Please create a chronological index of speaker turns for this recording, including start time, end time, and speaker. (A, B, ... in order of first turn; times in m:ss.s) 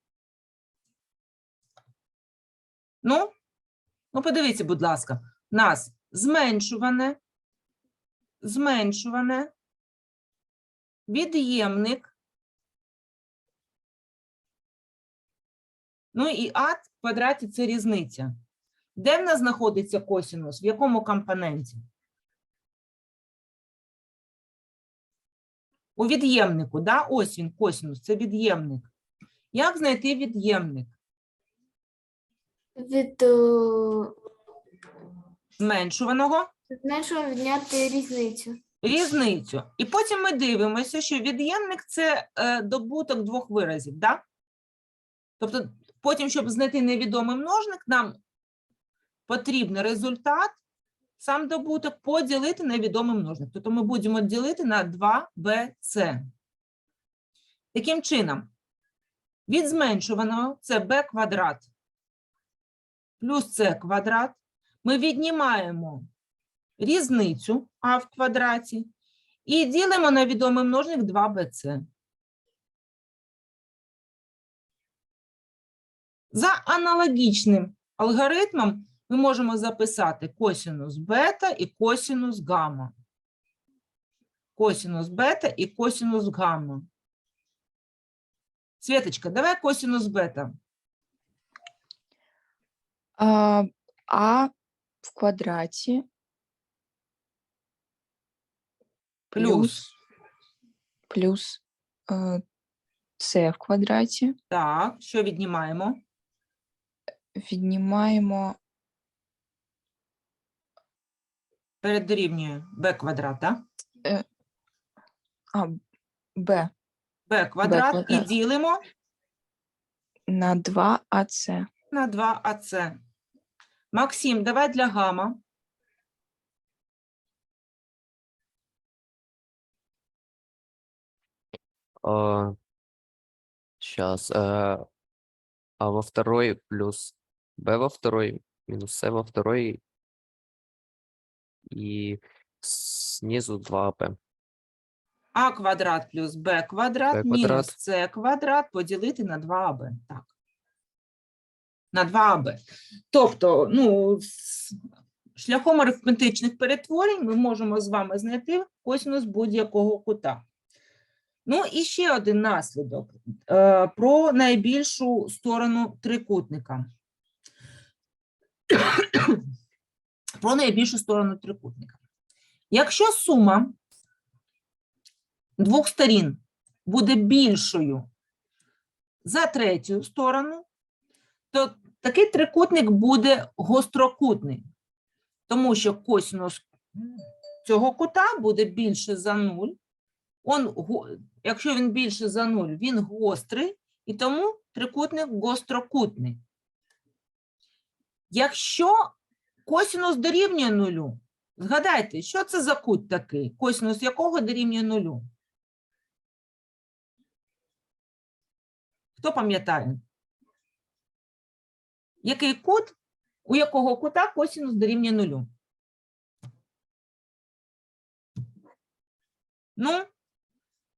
0:03.0-0:03.3 A
0:04.1-0:07.2 A
0:08.4-0:09.5 A
0:11.1-0:12.1 A
0:16.1-0:18.3 A
0:19.0-0:21.8 A
0:26.0-0:28.9 A
0:29.5-0:30.9 A
0:32.8-0:34.1 B
0:35.6-0:36.5 A
0:36.7-0:38.6 B
0:38.8-0:44.2 A
0:45.4-0:48.2 A
0:49.3-0:50.6 A
0:51.2-0:56.2 A
0:57.7-0:58.5 A
0:59.5-1:01.7 A
1:03.2-1:06.1 A
1:06.8-1:08.9 A
1:09.4-1:11.8 A
1:16.3-1:22.9 A
1:24.6-1:26.9 A
1:28.8-1:30.6 A
1:33.2-1:34.5 C
1:35.0-1:36.0 C
1:39.3-1:39.9 C
1:39.4-1:39.8 A
1:41.1-1:42.4 C
1:43.2-1:44.3 C
1:44.5-1:46.0 A
1:47.3-1:48.6 C
1:51.8-1:53.6 A
1:55.5-1:55.8 C
1:56.4-1:56.7 C
1:57.3-1:58.8 A
1:57.6-1:58.3 C
2:00.3-2:01.7 C
2:01.9-2:03.0 A
2:03.9-2:05.4 A
2:12.0-2:12.6 D
2:13.8-2:14.8 D
2:15.8-2:19.8 D
2:21.7-2:24.2 D
2:25.3-2:30.3 A
2:27.1-2:27.7 D
2:31.9-2:32.6 A
2:33.1-2:34.8 A
2:35.4-2:40.4 A
2:41.4-2:46.8 A
2:48.7-2:49.4 A
2:50.4-2:52.0 A
2:52.7-2:53.8 A
2:55.6-2:58.1 A
2:59.2-3:00.6 A
3:01.5-3:04.6 A
3:05.5-3:07.0 A
3:07.6-3:09.8 A
3:10.4-3:16.4 A
3:18.3-3:19.1 A
3:19.6-3:25.2 A
3:29.2-3:30.0 A
3:32.2-3:32.9 A
3:33.4-3:35.5 A
3:39.8-3:40.0 A